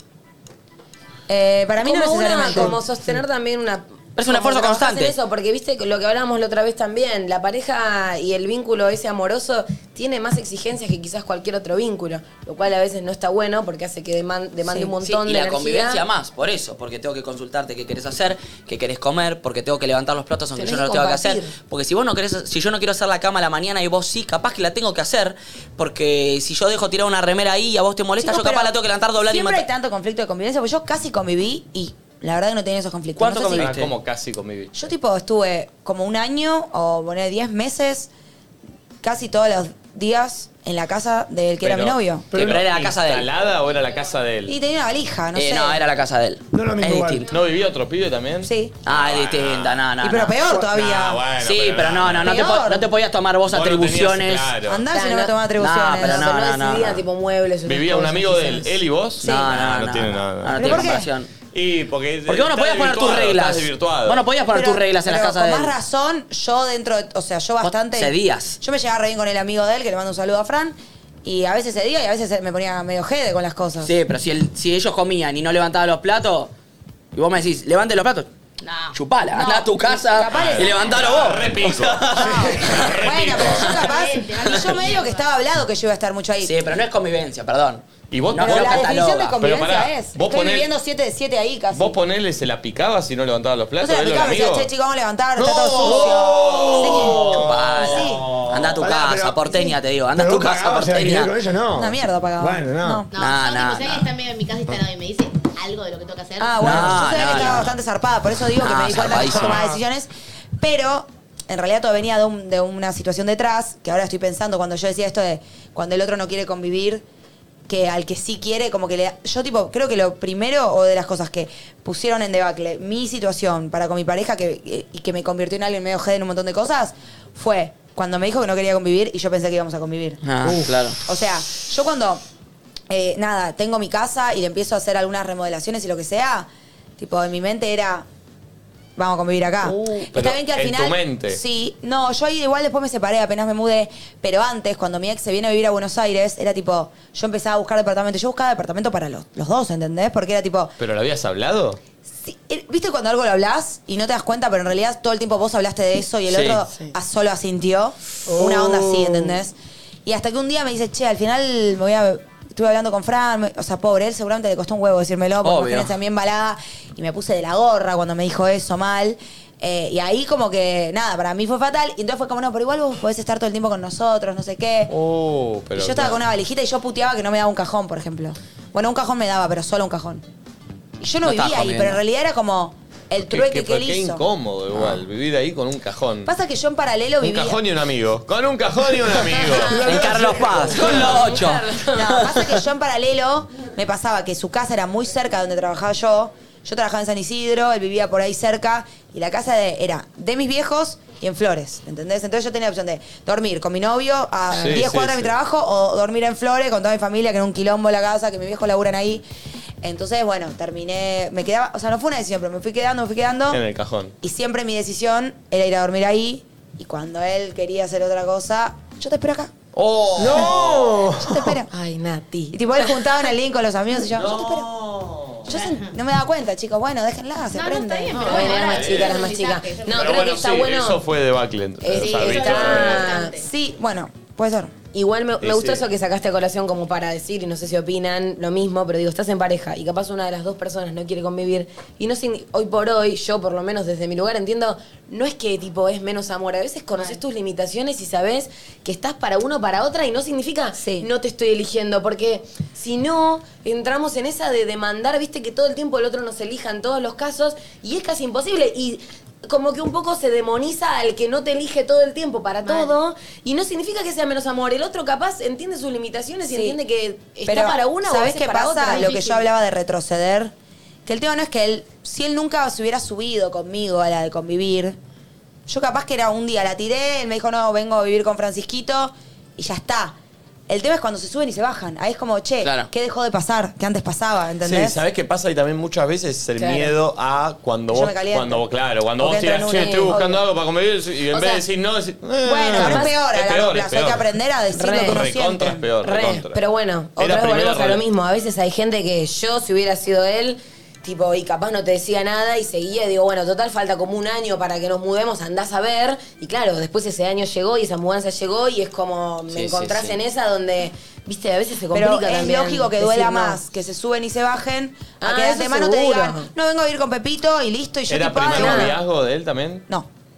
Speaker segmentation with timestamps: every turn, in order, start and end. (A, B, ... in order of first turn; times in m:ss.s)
0:01.3-0:02.8 A
0:01.8-0:16.0 B
0:02.5-0:03.2 C
0:04.2-0:05.1 D
0:14.7-0:29.6 D
0:20.6-0:21.5 B
0:28.2-0:33.8 A
0:33.2-0:33.9 D
0:33.6-0:34.7 E
0:34.7-0:38.1 A
0:39.0-0:42.3 A
0:41.6-0:44.5 E
0:42.3-0:42.6 C
0:42.3-0:43.3 D
0:44.5-0:45.8 A
0:45.3-0:47.2 D
0:46.5-0:47.3 C
0:47.3-0:49.9 E
0:48.4-0:48.8 A
0:48.8-0:50.4 D
0:50.0-0:51.2 A
0:50.4-0:52.4 E
0:51.4-0:54.5 D
0:52.2-0:52.8 A
0:53.5-0:54.8 E
0:54.6-0:56.3 A
0:54.9-0:55.3 B
0:55.6-0:57.0 D
0:55.9-0:58.8 B
0:57.6-1:00.9 E
0:59.2-1:01.3 D
1:00.5-1:01.1 A
1:01.5-1:04.2 E
1:02.3-1:05.7 D
1:04.5-1:13.9 A
1:07.6-1:08.6 D
1:13.8-1:16.5 D
1:17.1-1:18.3 D
1:18.6-1:19.0 F
1:18.9-1:23.0 D
1:19.3-1:20.8 A
1:20.3-1:23.8 E
1:22.2-1:26.5 A
1:23.7-1:25.2 F
1:26.4-1:29.4 D
1:28.1-1:30.7 E
1:28.4-1:32.0 A
1:31.7-1:34.7 E
1:33.8-1:38.3 A
1:35.4-1:38.7 E
1:35.9-1:37.4 C
1:37.1-1:41.3 D
1:38.8-1:43.0 C
1:41.7-1:43.1 A
1:43.1-1:47.0 F
1:43.1-1:44.1 D
1:46.4-1:50.1 A
1:46.6-1:47.7 D
1:48.6-1:49.6 D
1:50.6-1:57.0 A
1:57.7-2:10.2 A
2:10.2-2:11.0 D
2:11.0-2:12.2 A
2:12.9-2:18.0 A
2:19.0-2:30.7 A
2:20.1-2:21.4 E
2:30.8-2:31.8 E
2:32.2-2:54.9 A
2:36.3-2:36.6 D
2:38.3-2:39.4 C
2:45.4-2:45.9 D
2:54.9-2:56.2 E
2:55.7-3:00.2 A
3:01.0-3:04.2 A
3:01.2-3:02.0 D
3:03.2-3:06.3 E
3:06.2-3:07.6 A
3:07.2-3:10.2 E
3:09.5-3:11.1 C
3:09.7-3:11.6 D
3:10.6-3:12.5 B
3:11.9-3:29.2 A
3:24.5-3:25.3 E
3:29.8-3:33.6 A
3:33.5-3:34.1 E
3:34.2-3:39.5 A
3:39.7-3:40.5 D
3:40.2-3:41.6 C
3:40.2-3:40.9 E
3:41.2-3:41.7 A
3:41.7-3:42.9 B
3:42.5-3:44.7 A
3:44.1-3:45.5 E
3:45.4-3:48.3 A
3:45.5-3:45.8 F
3:47.5-3:50.3 F
3:48.1-3:51.0 B
3:48.3-3:49.2 E
3:49.9-3:53.1 E
3:51.8-3:53.4 B
3:51.9-3:53.4 F
3:53.3-3:54.7 A
3:54.9-4:29.4 B
3:55.4-3:55.8 E
4:10.8-4:11.1 A
4:22.6-4:23.0 F
4:26.5-4:26.8 A
4:27.4-4:30.5 A
4:28.8-4:29.3 F
4:31.0-4:35.0 A
4:35.7-4:40.2 A
4:40.7-4:45.0 A
4:42.6-4:42.9 D
4:44.6-4:54.2 E
4:46.6-4:46.9 B
4:47.9-4:48.6 A
4:49.2-4:50.4 A
4:49.8-4:50.2 B
4:51.3-4:51.6 B
4:52.4-4:55.8 A
4:52.8-4:53.1 B
4:54.7-4:55.2 B
4:55.0-4:56.6 E
4:56.0-5:13.6 B
4:57.2-4:58.0 E
5:09.5-5:10.2 D
5:11.9-5:19.0 A
5:15.2-5:16.5 B
5:18.1-5:19.8 E
5:18.5-5:19.0 B